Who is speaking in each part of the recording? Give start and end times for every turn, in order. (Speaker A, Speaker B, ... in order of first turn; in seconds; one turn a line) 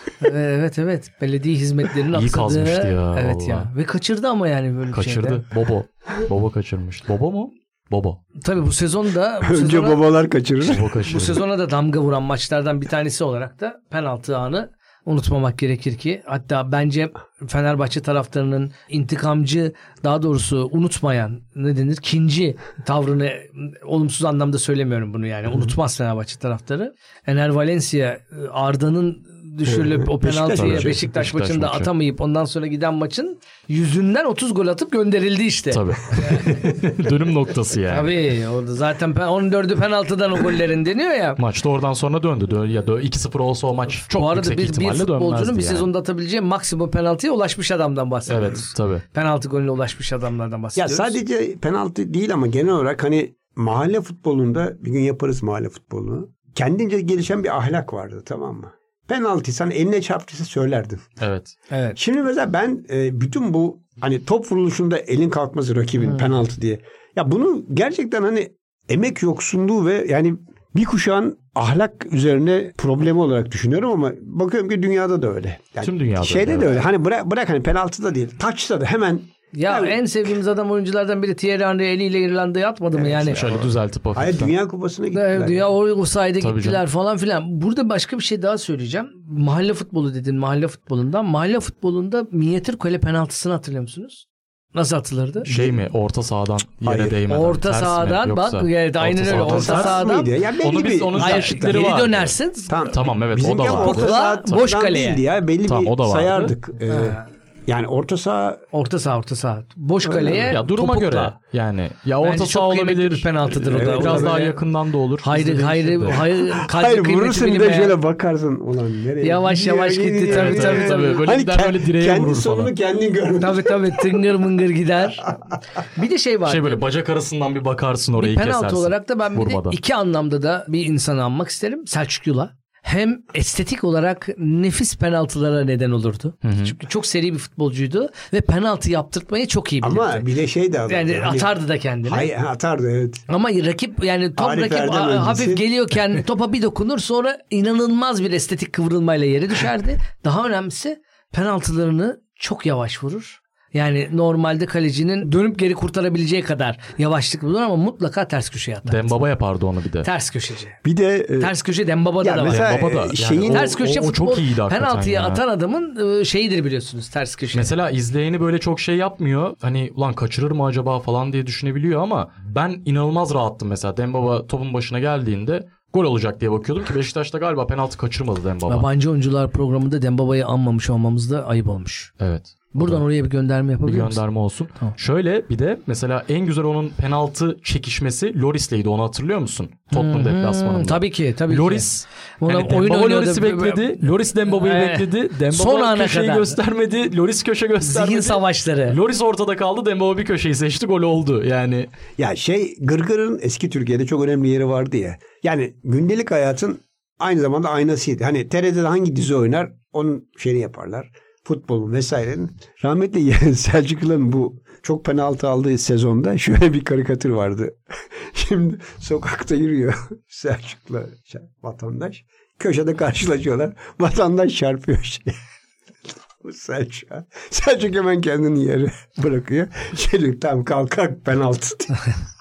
Speaker A: 0.2-5.4
Speaker B: 2.1-3.7
Speaker B: 4.9-8.2
Speaker A: 8.4-10.0
Speaker C: 9.4-10.9
Speaker B: 10.6-11.4
Speaker A: 11.0-36.6
Speaker C: 29.6-31.0
Speaker B: 30.5-31.9
Speaker B: 35.7-38.1
Speaker A: 37.9-41.4
Speaker B: 41.4-45.9
Speaker A: 44.1-51.2
Speaker B: 48.3-49.0
Speaker C: 50.7-61.0
Speaker B: 61.2-61.5
Speaker A: 61.7-62.0
Speaker C: 62.0-80.0
Speaker B: 75.8-76.8
Speaker A: 79.5-83.5
Speaker C: 82.9-85.7
Speaker B: 83.3-84.5
Speaker A: 85.1-95.5
Speaker B: 86.4-86.8
Speaker C: 95.5-95.8
Speaker B: 95.5-100.0
Speaker C: 96.8-97.2
Speaker A: 97.3-100.3
Speaker C: 99.3-102.1
Speaker B: 100.6-102.3
Speaker A: 101.1-102.8
Speaker C: 102.7-108.6
Speaker B: 102.9-104.2
Speaker A: 103.7-105.2
Speaker B: 105.6-106.5
Speaker A: 106.9-107.2
Speaker A: 108.7-111.3
Speaker C: 110.0-110.6
Speaker B: 110.5-116.2
Speaker A: 112.2-114.6
Speaker C: 113.7-114.5
Speaker A: 115.2-118.0
Speaker C: 116.1-124.2
Speaker A: 119.2-121.2
Speaker B: 120.3-122.7
Speaker A: 123.4-126.8
Speaker B: 126.5-129.8
Speaker A: 128.2-140.2
Speaker B: 136.4-136.8
Speaker C: 139.8-143.2
Speaker A: 140.9-142.3
Speaker A: 143.3-159.2
Speaker C: 144.4-145.7
Speaker B: 158.8-160.1
Speaker A: 160.0-160.8
Speaker C: 160.8-161.5
Speaker A: 161.4-162.7
Speaker C: 162.2-163.8
Speaker B: 162.5-165.4
Speaker A: 163.4-167.7
Speaker B: 167.5-178.9
Speaker A: 178.7-182.1
Speaker B: 182.2-183.0
Speaker A: 182.7-184.2
Speaker B: 183.8-201.9
Speaker A: 189.9-191.9
Speaker A: 192.4-196.6
Speaker A: 197.8-199.0
Speaker C: 202.2-225.3
Speaker C: 226.4-232.0